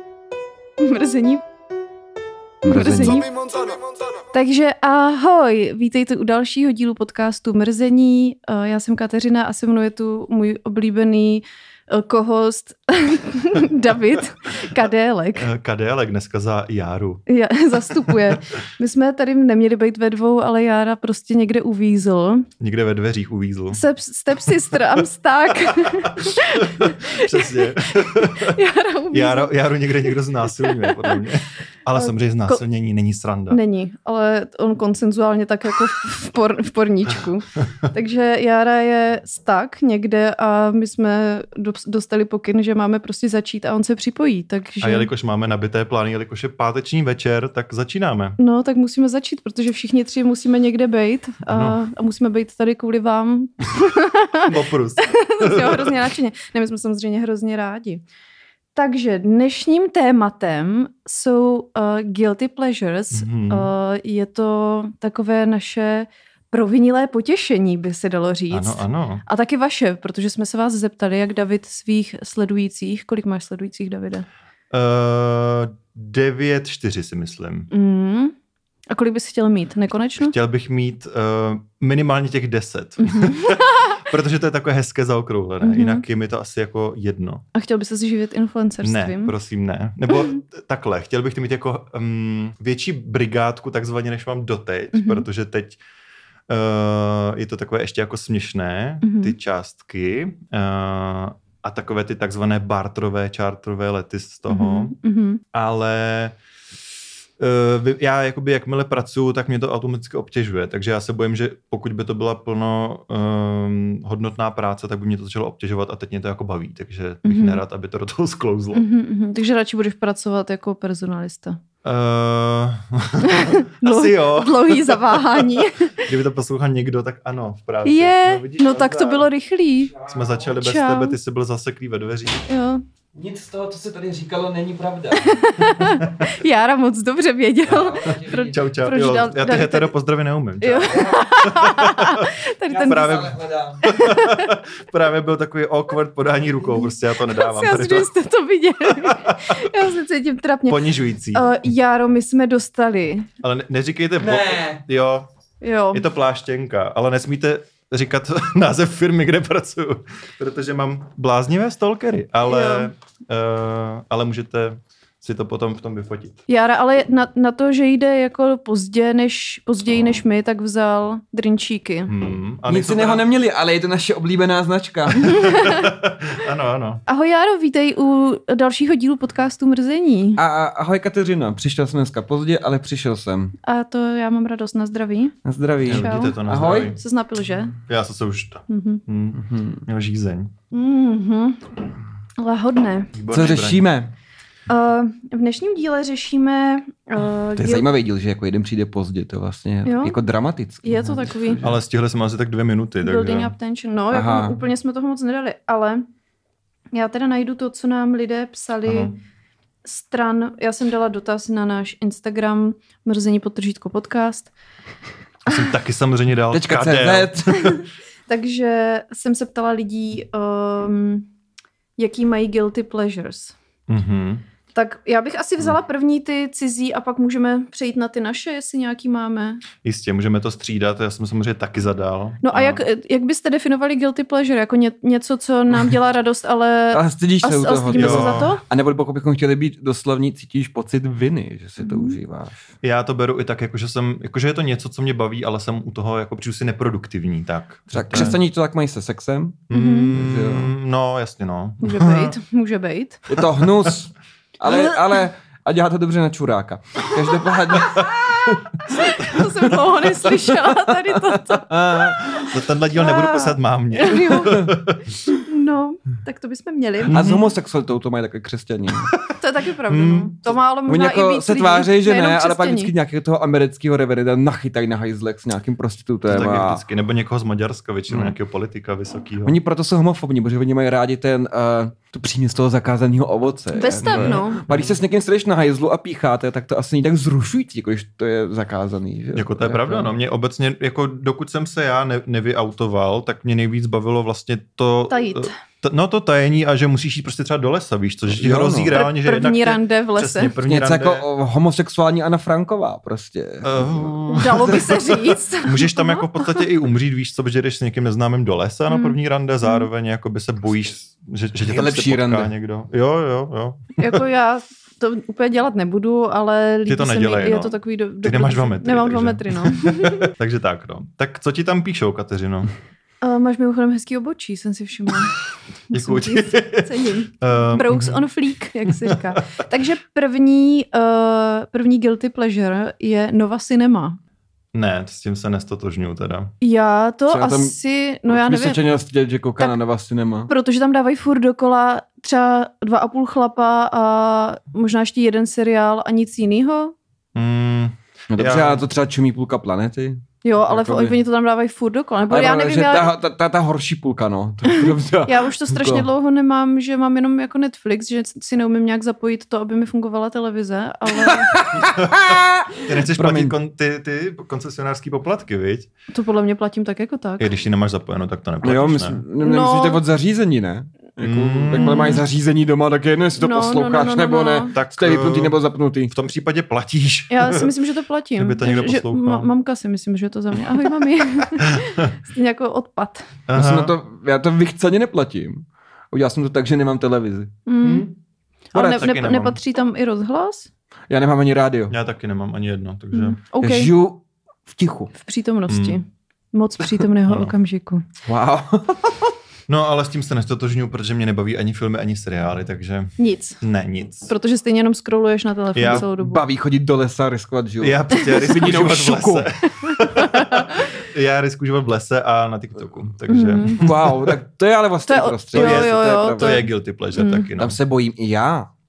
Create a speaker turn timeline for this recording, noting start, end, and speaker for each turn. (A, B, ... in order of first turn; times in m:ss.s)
0:00.8-0:01.4 A
0:02.6-0:03.3 A
0:02.6-0:04.0 B
0:04.3-0:15.5 A
0:15.4-0:17.2 C
0:17.3-0:22.5 A
0:18.0-0:18.4 C
0:22.6-0:23.8 C
0:23.7-0:31.2 A
0:25.7-0:28.6 C
0:29.1-0:33.6 C
0:31.9-0:32.6 A
0:33.5-0:45.1 A
0:44.8-0:48.4 C
0:48.4-0:58.0 A
0:51.5-0:51.8 C
0:54.4-0:56.1 C
0:58.7-1:14.2 A
1:03.1-1:03.7 C
1:08.5-1:09.2 C
1:14.7-1:17.7 C
1:17.7-1:18.3 A
1:18.9-1:20.3 A
1:20.2-1:27.4 C
1:23.0-1:24.0 A
1:25.6-1:26.0 A
1:27.5-1:29.3 A
1:28.8-1:35.8 C
1:30.1-1:30.4 A
1:34.9-1:35.2 A
1:36.5-1:44.9 C
1:39.0-1:39.4 A
1:44.5-1:45.4 A
1:45.5-1:46.4 C
1:47.4-1:58.8 C
1:57.2-1:57.6 A
1:58.7-2:01.6 A
2:01.8-2:09.3 C
2:03.2-2:06.0 A
2:07.8-2:09.9 A
2:10.0-2:10.5 B
2:10.1-2:12.5 C
2:10.6-2:11.2 A
2:12.5-2:12.8 A
2:13.1-2:15.4 B
2:15.1-2:19.9 A
2:15.8-2:16.3 C
2:17.7-2:18.7 B
2:18.5-2:28.1 C
2:20.6-2:23.3 A
2:20.9-2:21.2 B
2:22.7-2:23.9 B
2:23.8-2:24.5 A
2:26.8-2:33.3 A
2:28.9-2:29.8 C
2:30.7-2:31.6 C
2:33.4-2:35.3 C
2:34.3-2:34.8 B
2:35.6-2:36.0 A
2:35.9-2:46.4 C
2:42.4-2:42.9 A
2:46.5-2:52.1 A
2:52.1-2:53.2 C
2:52.7-2:55.6 B
2:55.1-2:55.9 A
2:55.2-2:57.0 C
2:57.0-3:00.4 A
3:00.4-3:03.5 B
3:03.6-3:05.4 A
3:05.4-3:06.9 B
3:05.8-3:07.0 C
3:05.9-3:06.4 A
3:07.0-3:07.7 A
3:07.9-3:10.5 C
3:08.7-3:09.0 A
3:09.3-3:09.8 B
3:10.7-3:11.7 A
3:12.4-3:13.1 A
3:13.1-3:13.8 C
3:13.3-3:14.1 B
3:14.7-3:17.8 A
3:17.6-3:21.8 B
3:19.8-3:20.2 A
3:20.8-3:21.6 A
3:21.6-3:23.5 C
3:23.0-3:26.0 A
3:24.1-3:24.6 B
3:26.9-3:29.1 A
3:28.8-3:29.2 C
3:29.8-3:34.5 A
3:35.4-3:37.8 C
3:36.5-3:37.6 B
3:37.5-3:41.3 A
3:42.0-3:43.6 A
3:43.9-3:44.4 C
3:44.7-3:49.6 A
3:49.8-3:52.8 C
3:52.4-3:58.6 A
3:56.9-4:02.6 B
3:57.9-3:58.5 C
4:01.8-4:02.2 A
4:02.8-4:08.4 C
4:07.9-4:10.7 B
4:09.7-4:12.3 C
4:09.7-4:10.1 A
4:11.8-4:13.3 A
4:13.3-4:22.5 B
4:13.5-4:13.9 C
4:14.6-4:15.2 A
4:17.4-4:18.2 A
4:18.8-4:27.4 A
4:22.5-4:25.1 C
4:24.3-4:24.7 B
4:27.0-4:27.4 C
4:27.1-4:29.1 B
4:29.4-4:32.9 A
4:29.9-4:30.5 C
4:30.9-4:36.8 B
4:36.3-4:39.6 C
4:38.1-4:38.3 B
4:39.4-4:50.1 B
4:43.7-4:44.6 A
4:44.0-4:45.0 C
4:49.3-5:01.3 C
4:55.1-4:55.5 A
4:58.3-4:59.0 B
4:58.9-5:00.5 A
5:00.6-5:05.2 B
5:03.6-5:05.0 C
5:04.3-5:06.5 A
5:05.6-5:14.0 C
5:08.9-5:09.9 A
5:11.7-5:12.5 B
5:14.0-5:20.3 A
5:16.9-5:22.7 C
5:23.2-5:25.4 A
5:25.9-5:34.2 A
5:25.9-5:28.2 C
5:28.9-5:29.4 C
5:34.7-5:36.5 C
5:36.6-5:38.8 A
5:37.3-5:40.5 B
5:40.5-5:47.0 A
5:47.3-5:48.9 C
5:48.3-5:51.1 B
5:50.4-5:53.1 A
5:52.3-5:56.1 B
5:54.6-6:01.7 A
6:01.2-6:03.6 B
6:01.9-6:05.9 C
6:06.1-6:07.5 A
6:07.4-6:09.2 C
6:08.6-6:16.1 B
6:09.4-6:10.0 A
6:11.2-6:12.2 C
6:11.8-6:12.2 A
6:13.4-6:14.7 A
6:14.7-6:17.7 C
6:17.3-6:23.3 A
6:18.4-6:19.5 C
6:21.6-6:22.1 C
6:23.5-6:24.0 C
6:23.5-6:27.5 B
6:27.6-6:28.1 A
6:27.8-6:28.1 C
6:28.7-6:30.7 A
6:28.7-6:29.6 C
6:31.1-6:31.9 B
6:31.9-6:33.4 C
6:33.1-6:33.9 A
6:33.6-6:35.1 B
6:35.2-6:38.0 A
6:35.7-6:36.0 C
6:38.2-6:39.3 B
6:39.7-6:44.3 C
6:43.2-6:43.6 A
6:44.3-6:46.4 A
6:45.7-6:46.0 C
6:45.9-6:49.5 B
6:47.8-6:54.3 C
6:49.8-6:50.9 A
6:53.3-6:53.9 A
6:53.8-6:56.6 B
6:55.1-6:57.5 A
6:55.5-6:57.8 C
6:57.6-6:58.7 B